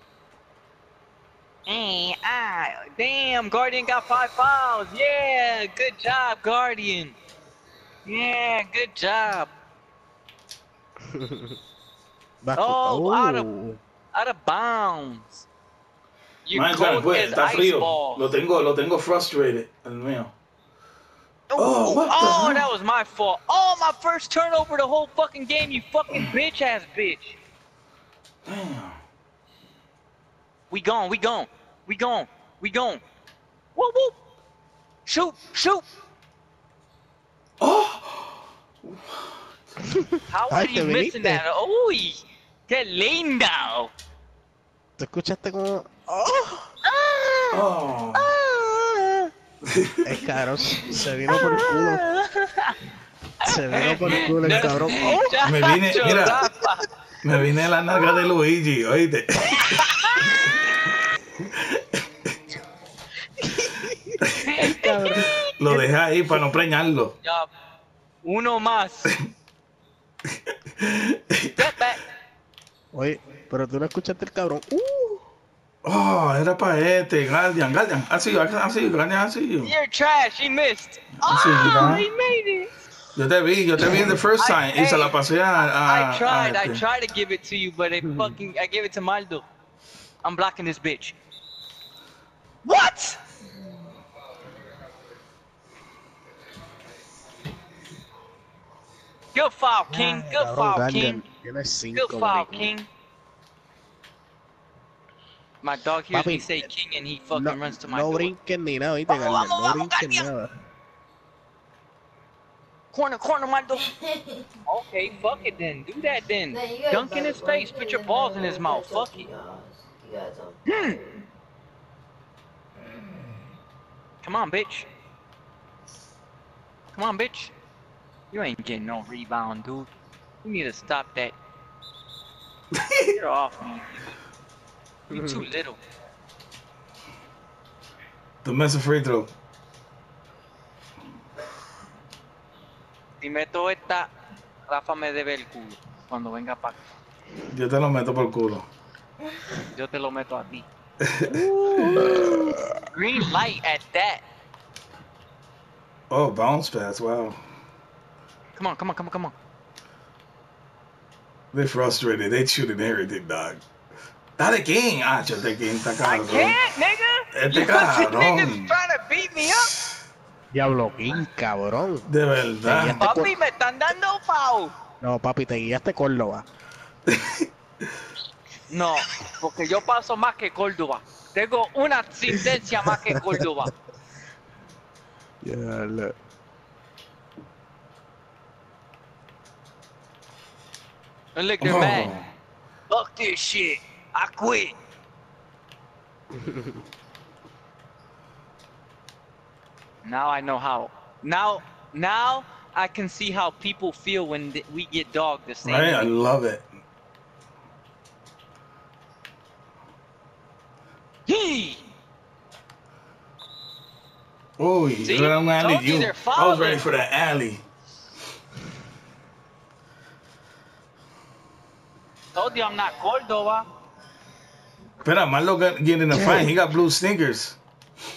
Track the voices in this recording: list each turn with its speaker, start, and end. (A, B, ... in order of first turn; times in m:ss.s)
0:01.7-0:07.2 A
0:08.1-0:09.5 A
0:11.0-0:11.6 B
0:12.4-0:13.8 B
0:12.6-0:13.5 A
0:14.1-0:15.5 A
0:16.4-0:18.4 A
0:16.5-0:20.3 C
0:21.5-0:27.4 A
0:21.6-0:22.7 C
0:28.4-0:29.0 C
0:30.7-0:33.0 A
0:33.8-0:34.2 A
0:35.1-0:35.9 A
0:37.6-0:39.3 C
0:39.8-0:41.4 B
0:40.3-0:43.9 A
0:45.0-0:46.7 B
0:46.8-0:47.6 A
0:47.5-0:48.3 C
0:48.2-0:49.2 A
0:49.6-0:50.2 C
0:50.0-0:52.0 B
0:51.3-0:52.8 A
0:53.4-0:55.4 B
0:53.4-0:56.9 A
0:55.4-0:56.5 C
0:57.2-1:00.0 C
0:59.4-1:01.0 A
1:01.5-1:02.0 C
1:03.4-1:05.3 B
1:04.4-1:05.8 A
1:05.4-1:07.2 C
1:07.2-1:07.5 A
1:08.2-1:09.1 A
1:10.7-1:11.7 C
1:11.5-1:12.0 A
1:12.9-1:15.2 B
1:15.8-1:19.7 C
1:19.6-1:22.7 A
1:21.2-1:22.1 C
1:23.2-1:26.8 C
1:24.0-1:29.4 A
1:30.2-1:31.2 A
1:32.6-1:33.2 A
1:39.3-1:41.2 A
1:39.9-1:42.7 B
1:41.9-1:42.9 A
1:45.6-1:48.3 A
1:46.1-1:46.7 B
1:47.3-1:50.5 B
1:49.1-1:50.3 A
1:52.9-1:53.9 A
1:53.8-1:54.5 D
1:54.7-1:59.3 A
1:56.5-2:01.2 D
2:00.7-2:01.0 A
2:04.2-2:04.9 A
2:06.9-2:07.5 A
2:08.3-2:09.9 A
2:10.4-2:11.4 A
2:12.7-2:13.1 C
2:13.1-2:14.0 A
2:15.1-2:15.8 A
2:15.1-2:15.5 B
2:18.4-2:19.3 C
2:23.2-2:24.1 A
2:24.7-2:26.9 A
2:27.5-2:28.7 C
2:29.7-2:30.7 A
2:31.0-2:31.3 C
2:31.3-2:34.2 A
2:31.3-2:32.8 B
2:36.1-2:37.4 C
2:38.6-2:39.3 A
2:41.5-2:43.6 C
2:44.4-2:46.6 C
2:46.0-2:49.7 A
2:47.3-2:48.7 C
2:50.5-2:52.1 B
2:52.1-2:53.1 C
2:52.6-2:53.4 B
2:53.0-2:54.7 A
2:55.0-2:56.5 B
2:57.1-2:57.5 C
2:58.7-3:03.7 A
3:02.9-3:03.5 B
3:05.4-3:06.2 B
3:11.4-3:12.1 A
3:11.6-3:12.3 C
3:12.9-3:14.8 A
3:16.3-3:16.8 B
3:20.0-3:26.1 A
3:25.6-3:26.7 C
3:31.3-3:31.8 A
3:34.6-3:37.6 C
3:35.0-3:36.8 A
3:42.4-3:43.7 A
3:45.0-3:47.6 C